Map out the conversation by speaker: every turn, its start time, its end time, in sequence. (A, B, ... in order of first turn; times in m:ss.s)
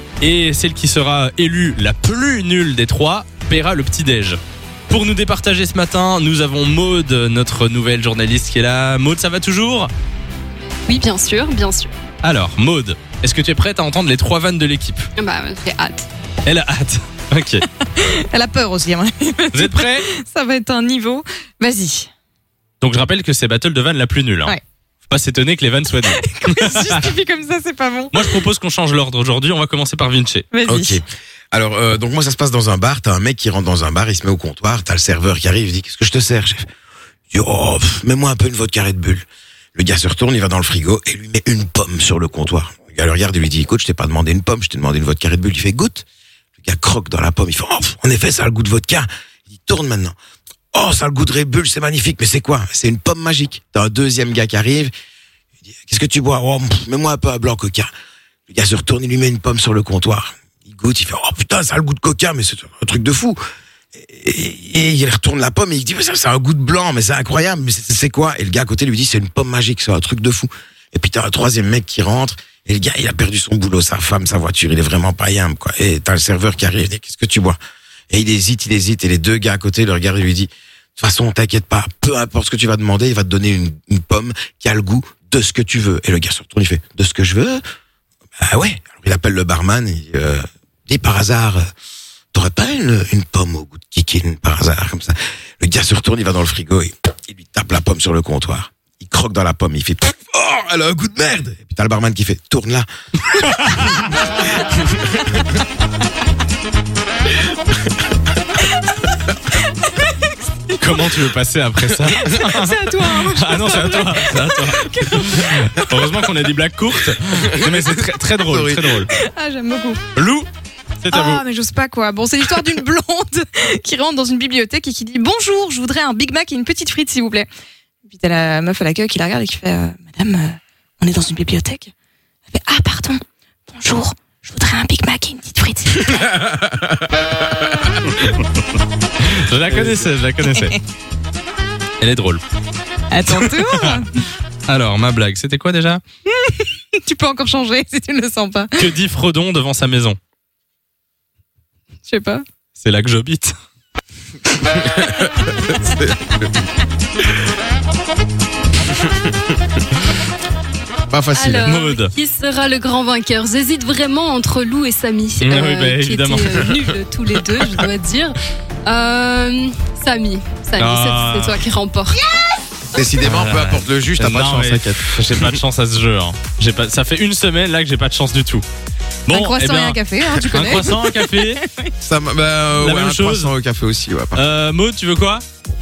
0:00.2-0:09.9 A
0:10.9-0:11.9 B
0:12.2-0:15.1 A
0:15.2-0:16.0 B
0:16.4-0:17.6 A
0:17.8-0:22.1 C
0:19.5-0:20.1 A
0:22.8-0:24.6 A
0:25.1-0:27.1 A
0:26.0-0:28.4 C
0:28.1-0:30.5 A
0:30.5-0:31.0 C
0:30.6-0:36.6 D
0:37.3-0:46.0 D
0:46.6-0:50.1 D
0:50.7-0:54.9 D
0:55.8-0:57.9 D
0:58.5-1:03.4 D
1:04.0-1:17.6 D
1:18.1-1:27.6 D
1:28.4-1:31.6 D
1:32.3-1:44.1 D
1:43.7-1:44.0 A
1:48.7-1:49.0 C
1:49.7-1:50.4 C
1:50.8-1:59.1 A
1:52.2-1:55.8 C
1:57.4-1:59.0 D
1:59.1-2:00.0 C
2:00.1-2:00.5 A
2:01.0-2:01.4 A
2:01.1-2:07.5 C
2:08.0-2:11.9 C
2:12.5-2:16.4 C
2:16.4-2:17.7 D
2:18.0-2:18.6 A
2:19.2-2:20.8 A
2:19.7-2:20.1 D
2:20.6-2:20.8 C
2:22.0-2:22.4 A
2:23.1-2:24.1 C
2:23.3-2:24.0 A
2:24.7-2:26.0 A
2:26.2-2:28.9 C
2:28.8-2:30.2 A
2:32.0-2:32.4 C
2:32.7-2:33.5 A
2:34.6-2:36.6 D
2:39.0-2:39.4 D
2:41.1-2:41.7 D
2:41.3-2:52.2 B
2:41.6-2:42.1 A
2:45.4-2:46.7 A
2:50.8-2:51.6 A
2:52.9-2:55.6 D
2:53.2-2:58.6 A
2:59.3-3:01.6 A
2:59.3-3:01.9 C
3:02.0-3:04.5 D
3:02.7-3:03.5 A
3:04.3-3:05.4 A